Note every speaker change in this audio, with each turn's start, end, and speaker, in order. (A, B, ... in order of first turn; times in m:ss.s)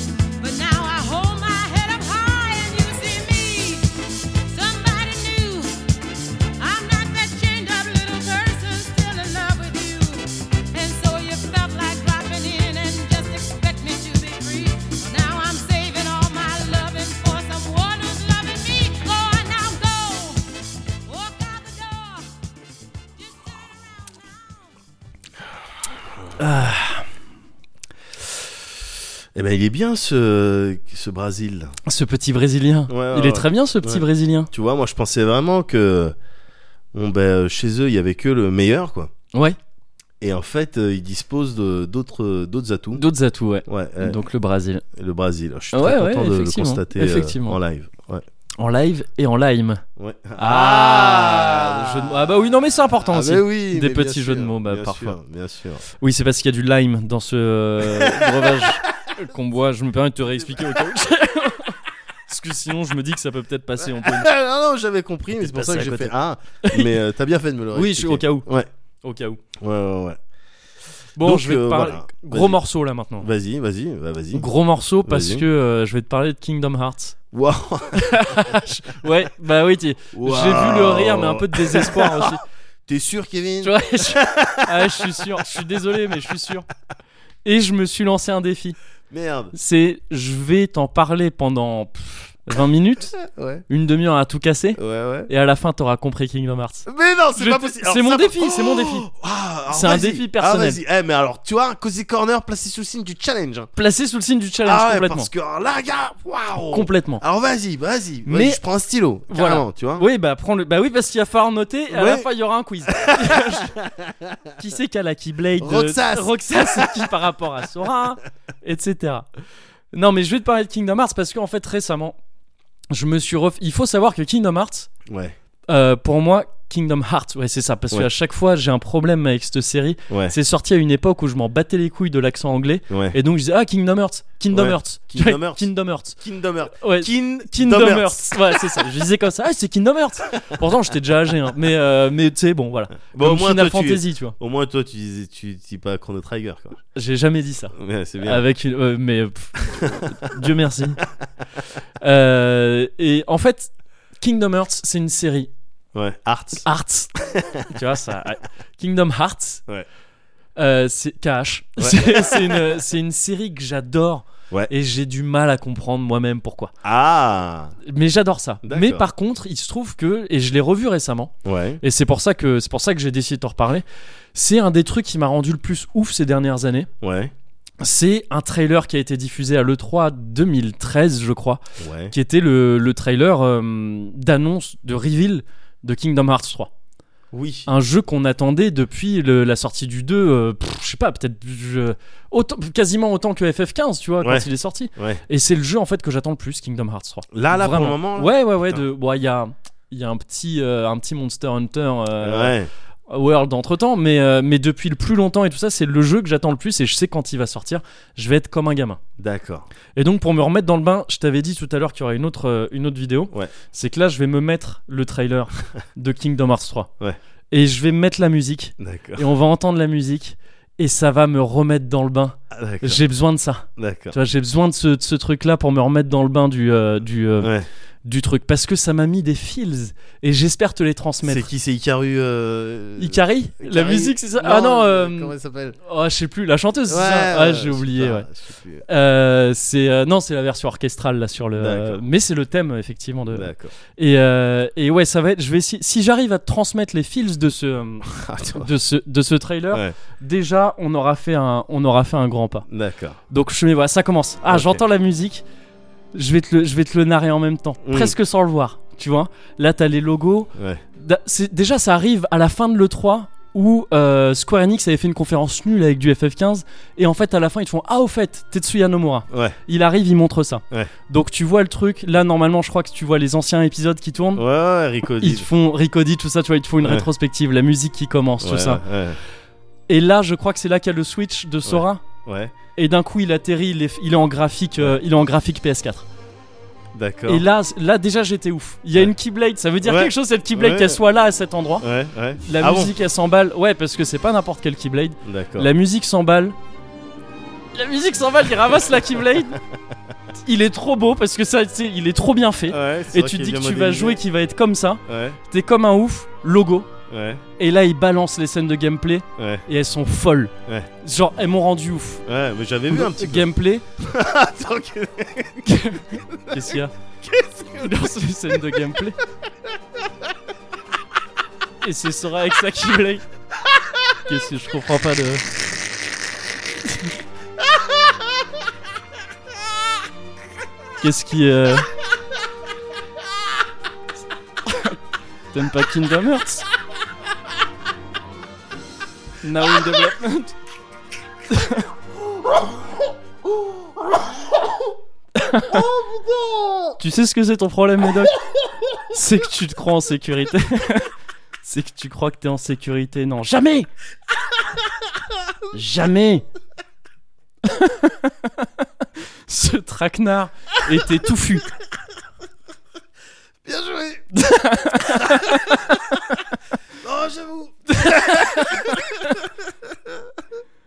0:00.4-0:22.4 A
0:23.2-0:24.6 A
0:26.4-0:27.1 B
0:29.4-0:31.8 C
0:31.9-0:34.5 B
0:32.9-0:36.2 C
0:36.9-0:39.1 C
0:40.2-0:43.0 C
0:42.9-0:44.8 B
0:43.7-0:44.2 C
0:44.9-0:48.2 C
0:45.7-0:47.6 B
0:48.6-0:49.8 B
0:50.0-0:52.3 C
0:50.4-0:55.2 B
0:53.1-0:55.8 C
0:56.0-1:04.3 B
0:57.8-0:58.8 C
1:03.8-1:08.7 C
1:05.4-1:07.0 B
1:07.7-1:08.5 B
1:09.0-1:09.4 B
1:09.6-1:10.2 C
1:11.2-1:13.3 B
1:11.2-1:12.6 C
1:13.2-1:14.5 C
1:14.3-1:17.2 B
1:15.0-1:15.4 C
1:17.3-1:18.4 C
1:17.9-1:22.4 B
1:20.1-1:25.5 C
1:23.6-1:26.7 B
1:27.4-1:28.8 B
1:29.1-1:29.5 C
1:29.5-1:33.2 B
1:33.2-1:33.6 C
1:33.7-1:39.1 B
1:34.8-1:35.3 C
1:36.9-1:43.7 C
1:39.7-1:40.8 B
1:43.8-1:45.3 B
1:44.6-1:50.1 C
1:46.7-1:47.2 B
1:48.3-1:48.6 B
1:49.3-1:53.8 B
1:51.9-1:52.3 C
1:52.9-1:54.4 C
1:54.6-1:59.3 B
1:55.6-1:57.1 C
1:59.9-2:02.2 B
2:02.9-2:04.9 B
2:05.1-2:05.4 C
2:05.7-2:16.2 B
2:10.1-2:10.4 C
2:12.9-2:13.2 C
2:14.5-2:18.9 C
2:16.8-2:24.4 B
2:23.1-2:26.8 C
2:27.0-2:31.0 B
2:27.7-2:28.4 C
2:29.7-2:30.3 C
2:32.0-2:35.5 B
2:35.9-2:37.7 C
2:36.6-2:37.1 B
2:37.7-2:39.6 B
2:40.6-2:46.7 B
2:41.8-2:42.8 C
2:46.8-2:47.8 C
2:47.8-2:56.9 B
2:48.6-2:49.1 C
2:51.4-2:51.8 C
2:57.0-2:57.3 C
2:57.8-3:06.7 B
3:01.8-3:02.1 C
3:07.3-3:07.7 C
3:07.7-3:22.6 B
3:14.2-3:15.2 C
3:17.3-3:18.8 C
3:22.2-3:22.7 C
3:23.1-3:29.0 B
3:29.2-3:29.7 C
3:30.0-3:36.9 B
3:37.5-3:47.5 B
3:38.8-3:39.3 C
3:42.5-3:43.0 C
3:43.8-3:44.2 C
3:47.4-3:47.7 C
3:48.0-3:51.5 B
3:51.2-3:55.8 C
3:53.0-3:58.3 B
3:56.9-3:58.8 C
3:58.9-4:12.7 B
4:01.6-4:02.0 C
4:03.3-4:03.7 C
4:08.1-4:08.7 C
4:12.7-4:13.2 C
4:13.3-4:15.4 B
4:14.5-4:14.8 C
4:16.1-4:34.4 B
4:17.8-4:18.2 C
4:20.6-4:20.8 C
4:29.3-4:29.6 C
4:34.4-4:35.5 C
4:35.2-4:38.8 B
4:38.4-4:39.2 C
4:39.9-4:42.0 B
4:41.7-4:42.5 C
4:42.8-4:46.1 B
4:46.9-4:47.4 C
4:47.3-4:51.9 B
4:49.8-4:51.0 C
4:51.8-4:52.9 C
4:52.4-4:56.6 B
4:55.2-4:55.7 C
4:57.7-4:59.6 B
5:00.4-5:06.9 B
5:02.7-5:04.2 C
5:05.1-5:05.4 C
5:07.1-5:07.4 C
5:07.6-5:12.2 B
5:09.4-5:09.6 C
5:12.3-5:15.8 C
5:12.9-5:13.9 B
5:15.6-5:16.9 B
5:16.3-5:16.6 C
5:17.2-5:18.1 C
5:17.8-5:19.2 B
5:21.8-5:23.2 B
5:24.2-5:25.4 B
5:31.0-5:31.9 B
5:34.7-5:35.0 B
5:35.5-5:36.6 B
5:39.4-5:40.5 B
5:41.5-5:41.8 B
5:45.4-5:45.9 B
5:46.1-5:46.8 C
5:47.0-5:48.4 B
5:49.1-5:51.1 B
5:51.6-5:53.9 B
5:55.7-5:56.4 B
5:57.6-5:58.7 B
5:59.5-6:01.7 B
6:03.6-6:04.3 C
6:04.3-6:06.0 B
6:04.9-6:06.0 C
6:07.0-6:09.5 C
6:07.9-6:09.4 B